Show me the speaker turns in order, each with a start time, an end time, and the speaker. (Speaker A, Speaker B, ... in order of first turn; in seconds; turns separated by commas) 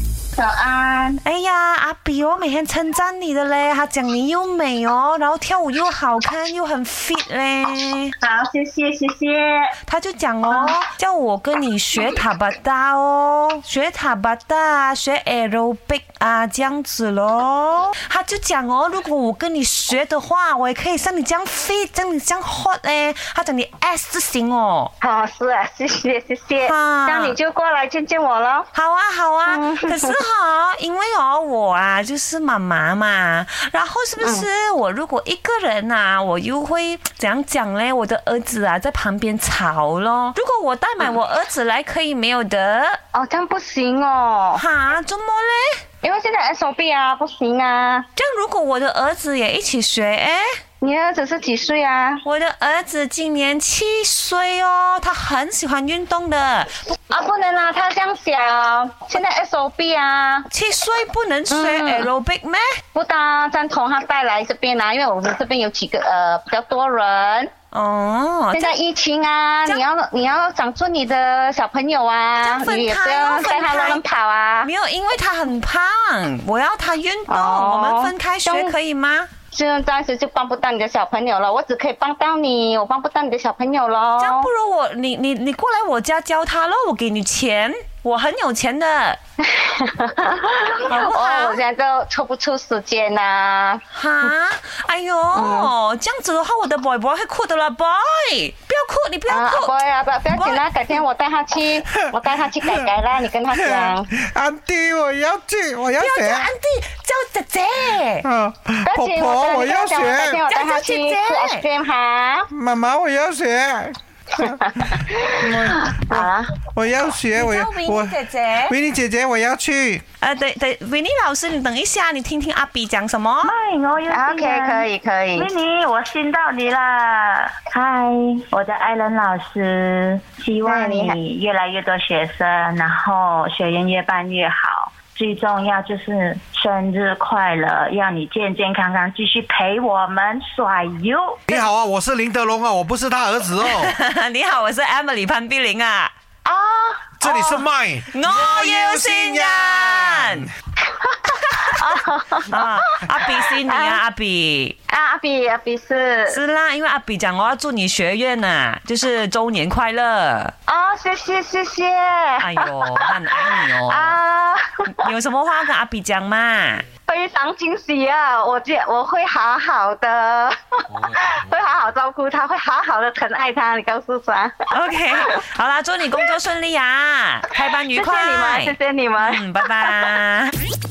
Speaker A: 0.3-1.2, Speaker B: 1.2-8.1, Speaker A: 8.2-9.7, Speaker B: 9.8-24.9, Speaker A: 10.5-10.8, Speaker A: 25.0-28.7, Speaker B: 26.6-27.4, Speaker B: 28.7-43.0, Speaker A: 29.4-30.2, Speaker A: 34.2-34.5, Speaker A: 43.1-44.6, Speaker B: 44.5-45.8, Speaker A: 46.0-48.0, Speaker B: 48.1-50.5, Speaker A: 50.8-52.2, Speaker B: 52.2-56.7, Speaker A: 57.1-60.5, Speaker B: 60.5-62.7, Speaker A: 61.5-62.1, Speaker A: 62.9-67.5, Speaker B: 67.7-68.7, Speaker A: 68.5-74.7, Speaker B: 72.4-74.0, Speaker B: 74.6-79.3, Speaker A: 77.3-78.7, Speaker A: 79.5-84.5, Speaker B: 84.2-89.2, Speaker A: 89.4-93.8, Speaker B: 90.9-91.6, Speaker B: 93.9-99.7, Speaker A: 95.3-95.7, Speaker A: 99.3-104.1, Speaker B: 100.3-100.6, Speaker C: 102.6-102.9, Speaker C: 103.5-106.5, Speaker B: 106.0-108.3, Speaker C: 108.2-110.4, Speaker A: 108.8-112.5, Speaker B: 110.5-111.6, Speaker C: 112.5-114.5, Speaker A: 114.4-116.5, Speaker C: 115.4-120.0, Speaker B: 117.3-118.8, Speaker B: 120.2-123.5, Speaker D: 123.4-141.4, Speaker A: 124.1-125.5, Speaker A: 130.6-131.2, Speaker C: 141.5-143.9, Speaker B: 143.6-146.1, Speaker A: 146.4-147.6, Speaker C: 147.2-150.5, Speaker B: 148.1-150.5, Speaker A: 151.0-154.0, Speaker B: 152.5-154.7, Speaker A: 154.9-156.4, Speaker B: 156.3-160.5, Speaker A: 160.7-164.9, Speaker B: 162.4-164.2, Speaker B: 164.9-166.8, Speaker A: 167.1-174.7, Speaker B: 174.7-180.5, Speaker A: 177.9-180.0